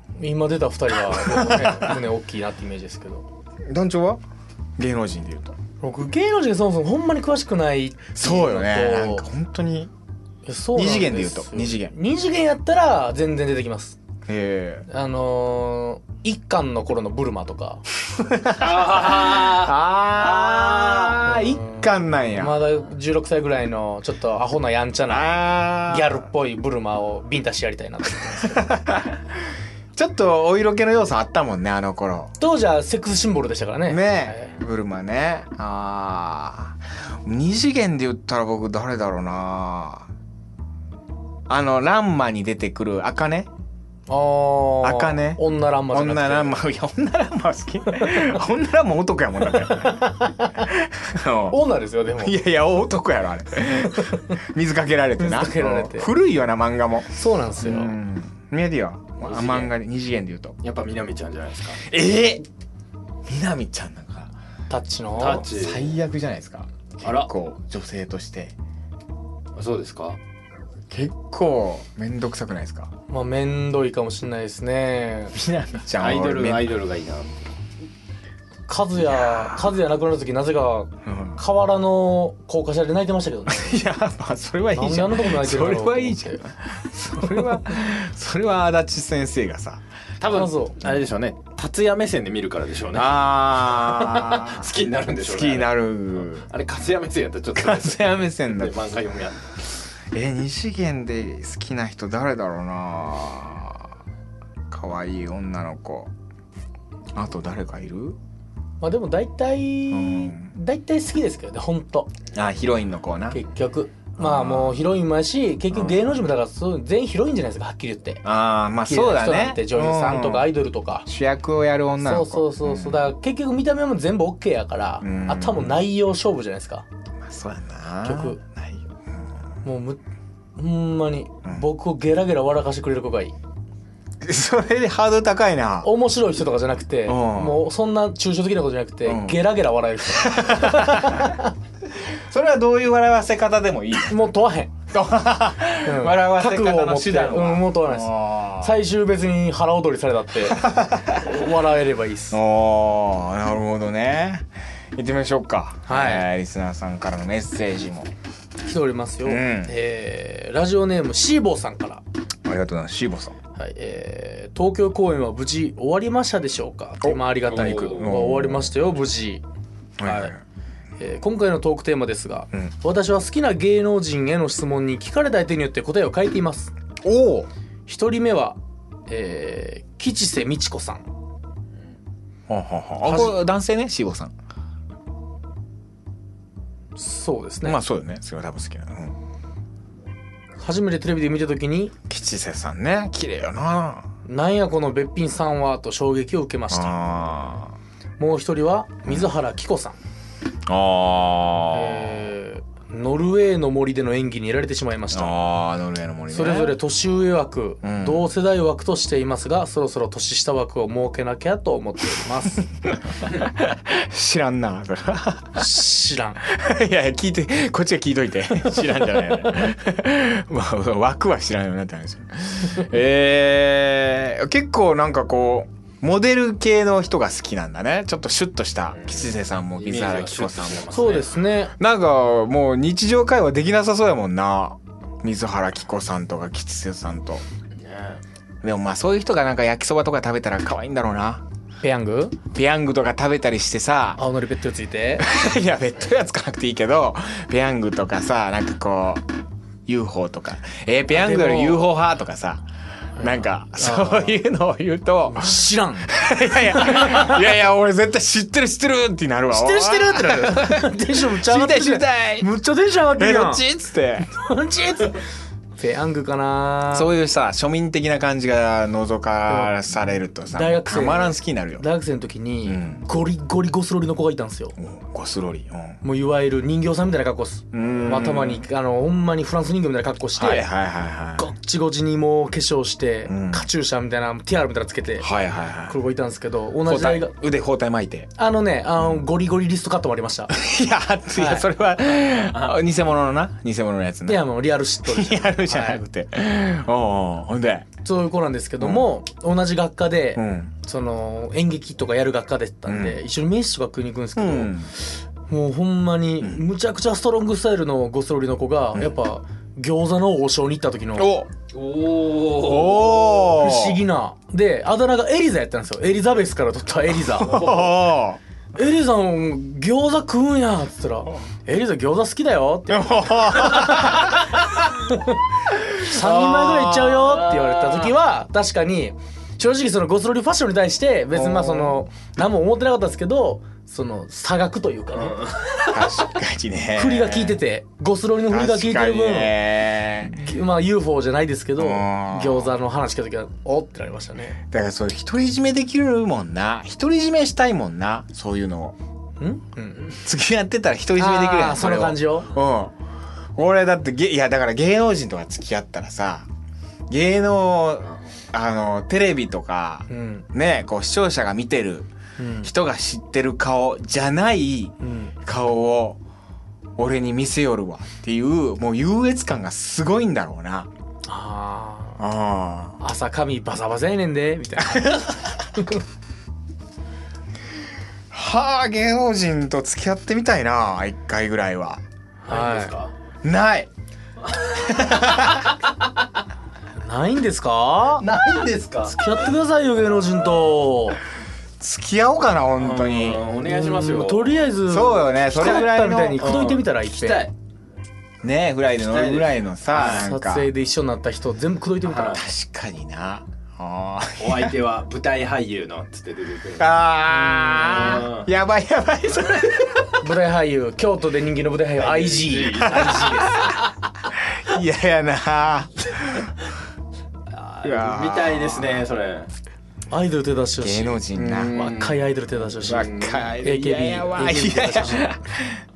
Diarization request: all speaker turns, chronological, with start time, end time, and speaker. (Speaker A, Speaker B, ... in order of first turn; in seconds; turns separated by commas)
Speaker A: 0.2-3.2, Speaker B: 1.1-2.0, Speaker B: 3.7-4.2, Speaker B: 4.8-5.6, Speaker A: 5.8-9.3, Speaker B: 8.1-9.9, Speaker A: 10.4-14.0, Speaker B: 10.7-11.9, Speaker B: 14.3-14.9, Speaker A: 14.9-17.8, Speaker B: 18.1-22.6, Speaker C: 18.6-21.2, Speaker A: 21.2-28.7, Speaker B: 25.1-26.2, Speaker B: 28.4-29.2, Speaker B: 29.9-32.3, Speaker A: 32.4-34.5, Speaker B: 33.9-40.1, Speaker B: 41.5-43.5, Speaker A: 44.1-46.6, Speaker B: 44.8-51.6, Speaker A: 49.7-50.6, Speaker A: 51.5-52.4, Speaker B: 52.2-60.6, Speaker A: 53.8-54.4, Speaker A: 55.2-56.1, Speaker A: 57.1-58.0, Speaker C: 59.2-59.7, Speaker C: 60.6-61.9, Speaker B: 61.8-62.5, Speaker B: 63.3-64.3, Speaker A: 64.7-65.5, Speaker C: 65.2-66.0, Speaker B: 65.3-68.5, Speaker C: 67.0-67.3, Speaker C: 69.5-70.2, Speaker B: 70.9-72.9, Speaker A: 73.1-75.3, Speaker B: 75.3-76.7, Speaker C: 76.0-77.5, Speaker A: 78.7-83.8, Speaker B: 79.1-79.7, Speaker B: 81.0-81.4, Speaker B: 83.5-89.8, Speaker A: 84.8-86.4, Speaker C: 90.2-99.7, Speaker A: 90.3-90.8, Speaker B: 92.9-96.5, Speaker B: 97.5-98.8, Speaker B: 100.1-103.9, Speaker B: 104.7-106.1, Speaker B: 107.1-108.2, Speaker A: 108.8-112.1, Speaker B: 109.9-110.5, Speaker B: 112.3-113.5, Speaker A: 113.3-118.2, Speaker B: 114.2-114.9, Speaker B: 115.7-116.1, Speaker B: 118.2-120.5, Speaker A: 118.9-121.1, Speaker B: 121.1-123.1, Speaker A: 122.0-126.9, Speaker B: 125.0-125.9, Speaker B: 127.2-128.9, Speaker A: 128.0-128.4, Speaker A: 129.6-130.0, Speaker A: 130.6-133.3, Speaker B: 134.2-135.9, Speaker A: 135.8-141.5, Speaker B: 137.1-137.7, Speaker B: 139.1-139.5, Speaker B: 140.1-141.3, Speaker B: 142.1-144.3, Speaker A: 144.1-144.7, Speaker B: 144.9-148.8, Speaker A: 145.8-152.4, Speaker B: 150.5-151.4, Speaker B: 152.3-158.1, Speaker A: 155.9-156.3, Speaker A: 158.7-162.0, Speaker B: 159.2-159.8, Speaker B: 162.4-163.4, Speaker A: 163.6-169.4, Speaker B: 167.0-168.7, Speaker C: 167.5-168.1, Speaker B: 170.0-170.4, Speaker A: 170.0-170.3, Speaker A: 171.0-176.7, Speaker B: 177.0-177.5, Speaker A: 177.9-181.1, Speaker B: 182.5-184.3, Speaker A: 183.0-183.4, Speaker A: 187.0-187.8, Speaker B: 187.6-189.2, Speaker A: 190.6-191.9, Speaker B: 192.1-194.1, Speaker A: 194.2-197.1, Speaker B: 196.7-197.8, Speaker A: 198.2-200.0, Speaker B: 199.1-199.3, Speaker B: 200.7-202.1, Speaker A: 201.7-205.4, Speaker B: 205.1-206.8, Speaker A: 206.3-212.7, Speaker B: 207.8-208.3, Speaker B: 212.8-215.8, Speaker A: 215.6-216.4, Speaker B: 216.4-231.3, Speaker C: 228.9-231.4, Speaker A: 230.9-231.8, Speaker B: 231.8-237.4, Speaker C: 237.8-238.2, Speaker B: 238.6-241.4, Speaker A: 241.8-242.4, Speaker B: 242.5-244.2, Speaker A: 244.2-245.3, Speaker B: 245.2-249.3, Speaker B: 249.9-252.7, Speaker A: 251.1-251.9, Speaker A: 253.2-254.4, Speaker B: 253.2-262.5, Speaker A: 255.3-256.2, Speaker A: 256.8-257.4, Speaker A: 259.5-263.6, Speaker B: 263.2-264.3, Speaker A: 264.2-265.2, Speaker A: 265.8-267.1, Speaker B: 266.9-271.8, Speaker A: 269.5-269.8, Speaker A: 270.5-274.8, Speaker B: 272.6-273.1, Speaker B: 274.8-276.0, Speaker A: 276.0-280.7, Speaker B: 277.7-278.6, Speaker B: 280.4-281.5, Speaker A: 281.4-285.3, Speaker B: 283.3-283.7, Speaker B: 285.2-286.0, Speaker A: 285.9-287.4, Speaker B: 286.9-288.3, Speaker A: 288.4-290.6, Speaker B: 290.5-297.9, Speaker A: 291.3-291.7, Speaker C: 292.3-292.8, Speaker A: 294.3-296.0, Speaker A: 298.0-311.4, Speaker B: 298.8-299.2, Speaker B: 300.4-300.7, Speaker B: 302.9-303.2, Speaker B: 304.4-304.9, Speaker B: 311.1-311.5, Speaker C: 311.7-313.4, Speaker B: 312.5-314.0, Speaker A: 313.4-317.7, Speaker B: 317.3-318.4, Speaker C: 317.4-317.9, Speaker A: 318.8-324.4, Speaker B: 322.9-324.6, Speaker A: 325.1-325.4, Speaker B: 326.0-327.4, Speaker A: 326.0-335.4, Speaker C: 327.3-328.1, Speaker B: 331.3-332.0, Speaker C: 335.1-336.0, Speaker B: 335.9-337.6, Speaker A: 337.0-339.6, Speaker B: 338.5-340.4, Speaker A: 340.2-344.6, Speaker B: 341.8-342.7, Speaker B: 344.6-349.0, Speaker A: 349.4-350.2, Speaker B: 350.1-353.0, Speaker A: 351.2-352.5, Speaker B: 353.6-356.5, Speaker B: 357.1-362.1, Speaker A: 360.1-360.4, Speaker A: 362.4-362.7, Speaker B: 362.6-366.2, Speaker A: 365.0-365.3, Speaker B: 367.0-370.9, Speaker A: 371.3-372.2, Speaker B: 372.2-373.0, Speaker A: 373.0-376.0, Speaker B: 374.8-375.3, Speaker B: 378.3-382.0, Speaker A: 382.4-383.0, Speaker C: 382.5-383.1, Speaker B: 383.4-383.9, Speaker C: 384.5-385.6, Speaker B: 384.7-385.8, Speaker A: 387.0-388.3, Speaker C: 388.2-389.4, Speaker A: 389.1-391.2, Speaker B: 391.8-393.4, Speaker C: 392.8-394.6, Speaker A: 393.6-397.5, Speaker B: 394.9-396.6, Speaker C: 395.6-397.5, Speaker B: 398.4-400.7, Speaker C: 399.1-400.3, Speaker A: 399.9-402.4, Speaker C: 402.1-402.4, Speaker B: 402.3-404.8, Speaker C: 404.4-408.5, Speaker B: 406.8-410.0, Speaker A: 410.2-413.4, Speaker C: 412.0-413.9, Speaker B: 412.8-413.8, Speaker B: 414.4-416.5, Speaker C: 417.5-419.5, Speaker B: 417.8-419.0, Speaker A: 420.1-423.1, Speaker B: 420.8-421.8, Speaker C: 421.4-423.5, Speaker B: 422.9-425.8, Speaker A: 423.6-425.3